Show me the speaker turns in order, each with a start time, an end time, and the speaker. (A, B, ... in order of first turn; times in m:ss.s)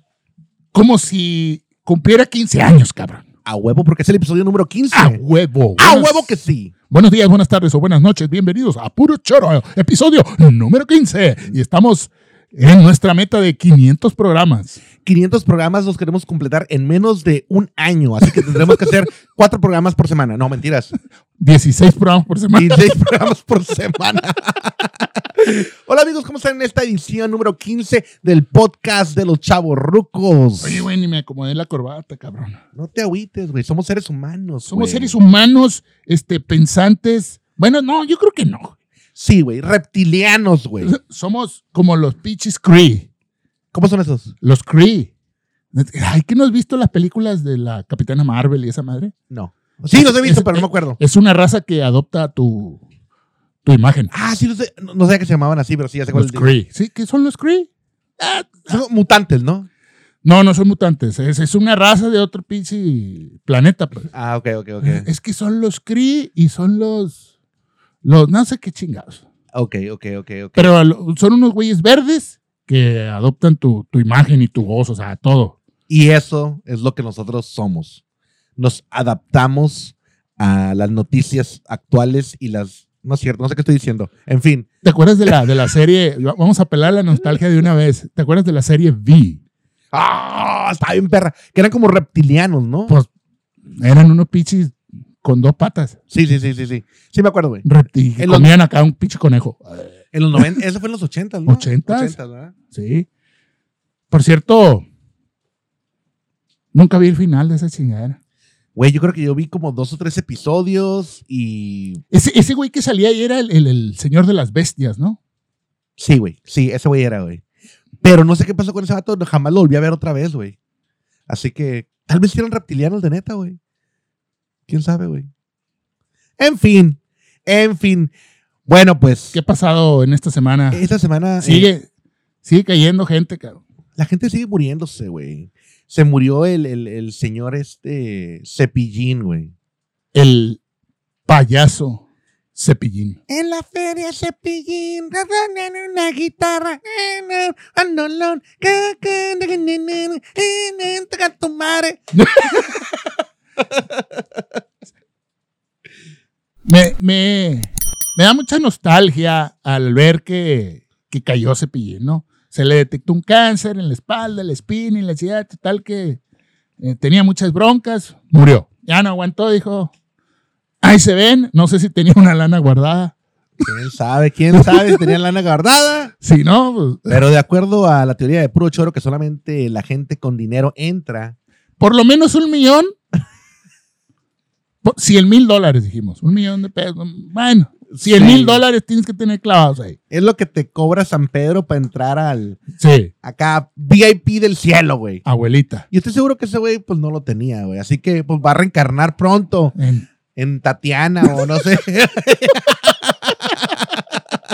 0:00.7-0:03.2 A
0:03.4-0:05.2 B
0:04.9-0:06.4 A
0:05.8-0:06.7 B
0:06.9-0:14.8 A
0:15.0-0:20.9 B
0:21.4-0:22.8 A
0:22.5-0:30.9 B
0:30.6-0:32.6 A
0:32.7-0:35.2 B
0:34.7-0:38.7 A
0:39.2-0:40.9 B
0:40.8-0:43.1 A
0:43.7-0:44.3 B
0:44.4-0:45.1 A
0:45.7-0:49.1 A
0:49.3-0:51.0 B
0:49.9-0:52.8 A
0:53.6-0:54.1 A
0:54.1-0:56.5 B
0:56.1-0:58.8 A
0:58.7-0:59.7 B
1:00.2-1:04.1 A
1:04.1-1:05.1 B
1:04.8-1:07.2 A
1:08.0-1:09.2 A
1:09.5-1:10.7 B
1:10.6-1:15.6 A
1:15.9-1:18.0 B
1:18.6-1:24.7 B
1:24.8-1:29.4 A
1:29.9-1:32.9 B
1:33.8-1:36.0 A
1:36.1-1:37.6 B
1:37.6-1:40.5 A
1:38.2-1:38.5 B
1:40.1-1:42.5 B
1:41.5-1:42.2 A
1:42.7-1:43.1 A
1:44.1-1:44.8 A
1:46.7-1:48.2 A
1:48.8-1:52.0 B
1:52.1-1:55.2 A
1:56.0-1:57.4 B
1:58.0-2:00.6 B
2:01.3-2:03.6 B
2:04.7-2:05.3 B
2:06.4-2:08.1 B
2:08.6-2:09.4 B
2:09.3-2:10.8 A
2:10.7-2:11.7 B
2:11.4-2:11.8 A
2:12.4-2:13.6 A
2:14.0-2:19.5 B
2:20.1-2:20.6 A
2:21.3-2:22.0 A
2:22.5-2:23.2 A
2:23.3-2:32.6 B
2:32.1-2:32.7 A
2:36.6-2:46.2 A
2:46.8-2:49.9 A
2:50.8-2:53.1 A
2:53.6-2:56.1 B
2:54.5-2:55.0 A
2:56.2-2:57.2 A
2:57.1-3:01.4 B
3:01.8-3:02.9 A
3:04.8-3:10.0 A
3:08.0-3:08.6 B
3:10.1-3:12.6 B
3:12.8-3:13.1 A
3:13.2-3:15.2 B
3:15.2-3:15.8 A
3:15.9-3:19.7 B
3:19.8-3:20.0 A
3:20.4-3:24.0 B